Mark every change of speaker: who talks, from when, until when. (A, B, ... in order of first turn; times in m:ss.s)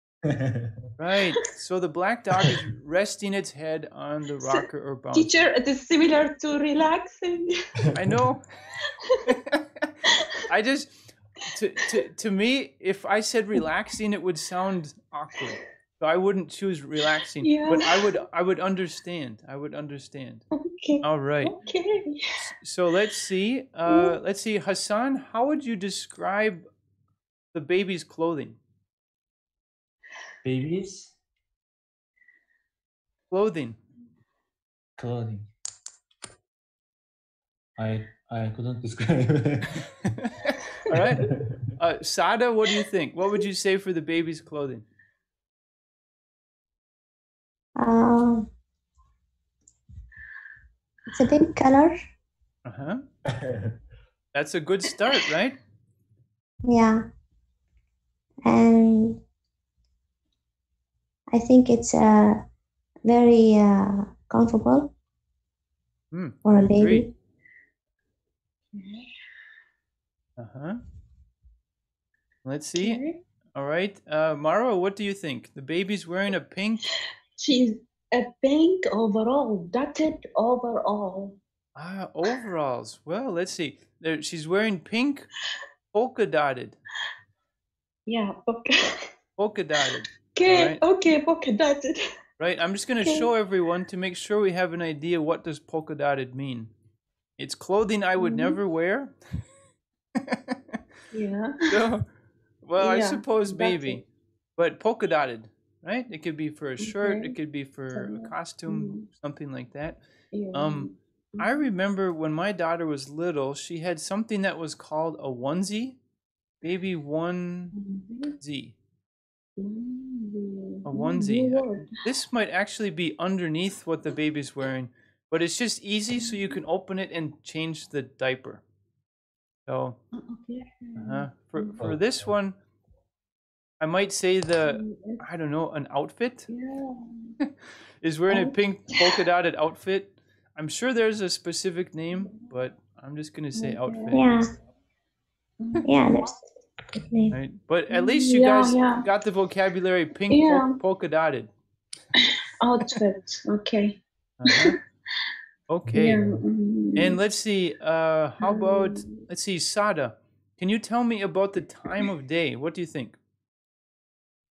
0:00.2-0:00.8 A
0:01.0-0:05.3 B
0:05.1-0:07.5 C
0:07.9-0:08.4 B
0:09.3-0:09.9 B
0:10.4-0:10.9 B
0:11.4-0:20.4 B
0:17.4-0:18.0 C
0:20.7-0:22.2 C
0:21.0-0:21.5 B
0:22.4-0:26.6 B
0:23.9-0:24.1 C
0:27.5-0:28.6 B
0:30.4-0:31.1 A
0:33.3-0:33.8 B
0:35.0-0:35.5 A
0:37.8-0:39.8 A
0:40.0-0:44.8 B
0:40.9-0:41.6 A
0:47.8-0:48.5 D
0:51.1-0:52.0 D
0:52.6-0:53.0 B
0:53.3-0:53.8 A
0:54.3-0:55.6 B
0:56.6-0:57.0 D
0:58.4-0:59.2 D
1:01.3-1:02.4 D
1:03.0-1:04.9 D
1:06.1-1:07.0 B
1:06.4-1:07.1 D
1:08.7-1:09.1 C
1:10.4-1:10.8 B
1:12.4-1:13.0 B
1:12.8-1:13.2 C
1:13.5-1:16.8 B
1:17.4-1:21.4 C
1:21.8-1:25.3 B
1:25.9-1:26.8 B
1:28.1-1:29.1 C
1:29.4-1:30.8 B
1:30.3-1:32.0 C
1:32.4-1:36.7 B
1:33.0-1:33.3 C
1:37.4-1:39.1 B
1:38.2-1:38.6 C
1:40.2-1:40.8 B
1:41.1-1:41.5 C
1:41.7-1:42.1 B
1:42.6-1:44.0 B
1:42.8-1:44.0 C
1:44.6-1:50.0 B
1:46.8-1:47.4 C
1:47.9-1:49.0 C
1:50.3-1:51.5 C
1:50.5-1:56.0 B
1:56.6-1:57.7 B
1:57.7-1:58.4 C
1:58.4-1:58.7 B
1:59.6-2:01.9 C
2:00.8-2:08.6 B
2:06.2-2:06.6 C
2:09.7-2:10.0 B
2:10.2-2:11.8 C
2:11.0-2:12.5 B
2:11.8-2:12.3 A
2:13.8-2:16.5 B
2:14.6-2:15.2 C
2:16.5-2:17.4 C
2:18.0-2:24.4 B
2:18.3-2:18.5 C
2:23.5-2:24.2 C
2:24.1-2:24.5 D
2:25.6-2:26.3 C
2:25.8-2:26.3 D
2:26.9-2:27.3 D
2:27.3-2:31.5 B
2:27.9-2:29.0 C
2:30.3-2:30.8 C
2:32.6-2:34.7 C
2:34.4-2:34.8 B
2:35.7-2:36.2 B
2:35.9-2:36.4 A
2:35.9-2:37.2 C
2:37.0-2:43.2 B
2:38.4-2:39.2 C